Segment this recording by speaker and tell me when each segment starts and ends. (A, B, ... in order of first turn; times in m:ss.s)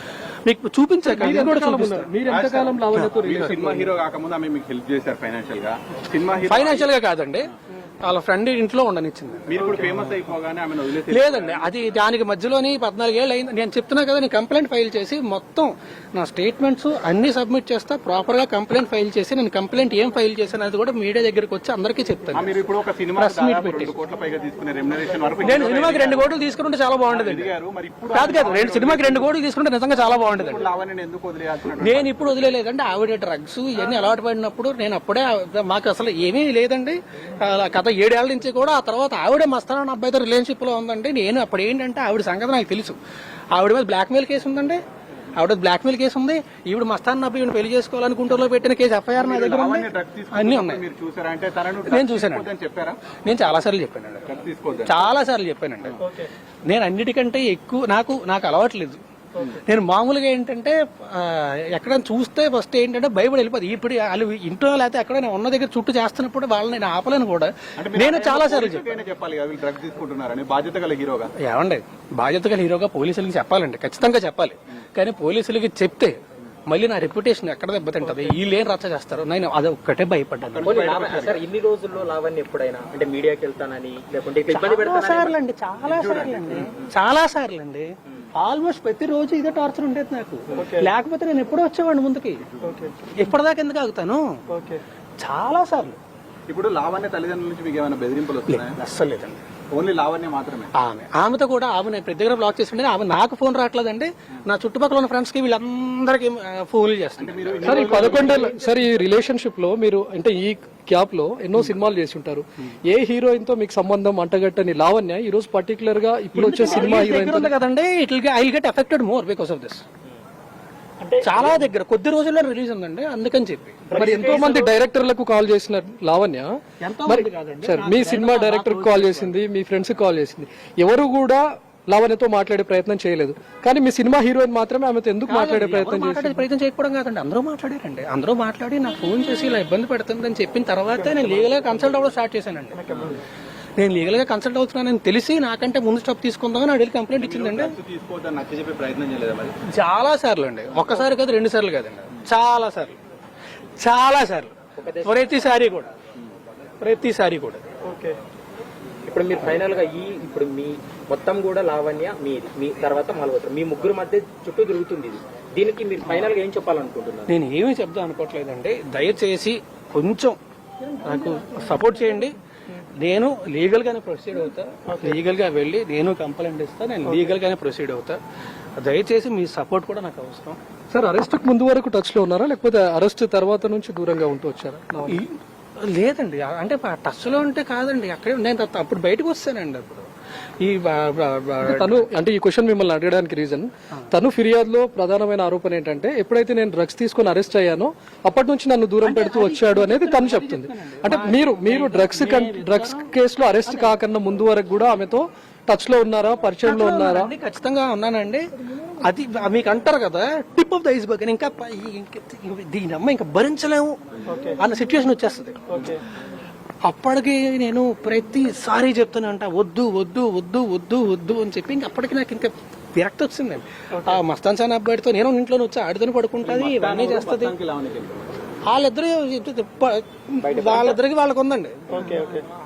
0:00.4-0:02.1 A
0:01.1-0:03.9 B
0:02.3-0:06.9 C
0:02.9-0:03.2 A
0:06.5-0:07.5 A
0:08.0-0:09.8 A
0:09.5-0:11.7 C
0:09.6-0:09.9 D
0:11.0-0:22.5 A
0:22.3-0:26.3 C
0:23.1-0:23.9 A
0:25.4-0:27.5 A
0:27.1-0:29.3 C
0:28.1-0:30.7 A
0:30.3-0:32.5 C
0:31.8-0:43.0 A
0:43.5-0:44.8 A
0:45.4-0:50.8 A
0:49.2-0:53.1 C
0:51.8-0:52.5 A
0:53.1-0:54.3 A
0:54.3-0:55.0 C
0:54.8-0:56.0 A
0:56.0-0:56.3 D
0:56.7-0:59.0 A
0:59.6-1:09.0 A
1:07.8-1:11.3 C
1:11.4-1:20.8 A
1:20.5-1:21.4 C
1:20.6-1:25.3 E
1:24.5-1:32.4 A
1:25.8-1:26.7 C
1:30.6-1:30.9 D
1:32.6-1:33.0 D
1:33.2-1:34.4 A
1:34.5-1:34.8 D
1:35.2-1:36.0 A
1:36.5-1:38.8 C
1:38.5-1:39.4 A
1:39.7-1:40.7 C
1:40.8-1:48.5 A
1:47.2-1:48.6 C
1:47.6-1:57.5 B
1:48.0-1:48.4 E
1:56.3-1:59.8 A
1:56.7-1:57.1 D
2:01.0-2:01.5 D
2:01.2-2:04.4 A
2:03.9-2:04.8 D
2:04.0-2:06.5 B
2:06.8-2:09.4 A
2:07.1-2:16.4 B
2:15.3-2:22.8 A
2:21.0-2:21.5 D
2:22.7-2:23.2 D
2:23.8-2:27.8 A
2:27.2-2:29.6 C
2:29.7-2:33.0 A
2:33.8-2:35.9 A
2:34.8-2:35.2 E
2:36.8-2:37.6 A
2:37.8-2:38.2 D
2:39.1-2:47.3 E
2:47.3-2:50.4 A
2:51.0-2:52.3 A
2:53.0-2:58.2 A
2:58.8-3:00.6 A
3:00.9-3:05.2 B
3:05.1-3:10.1 A
3:10.6-3:12.1 A
3:11.6-3:27.3 B
3:19.0-3:23.1 A
3:23.6-3:24.0 A
3:26.6-3:28.5 A
3:29.0-3:34.0 A
3:34.3-3:34.6 D
3:34.6-3:35.6 A
3:35.7-3:36.0 D
3:36.8-3:47.6 A
3:46.5-3:48.3 C
3:48.7-3:52.0 A
3:50.4-3:51.0 E
3:51.9-3:52.5 D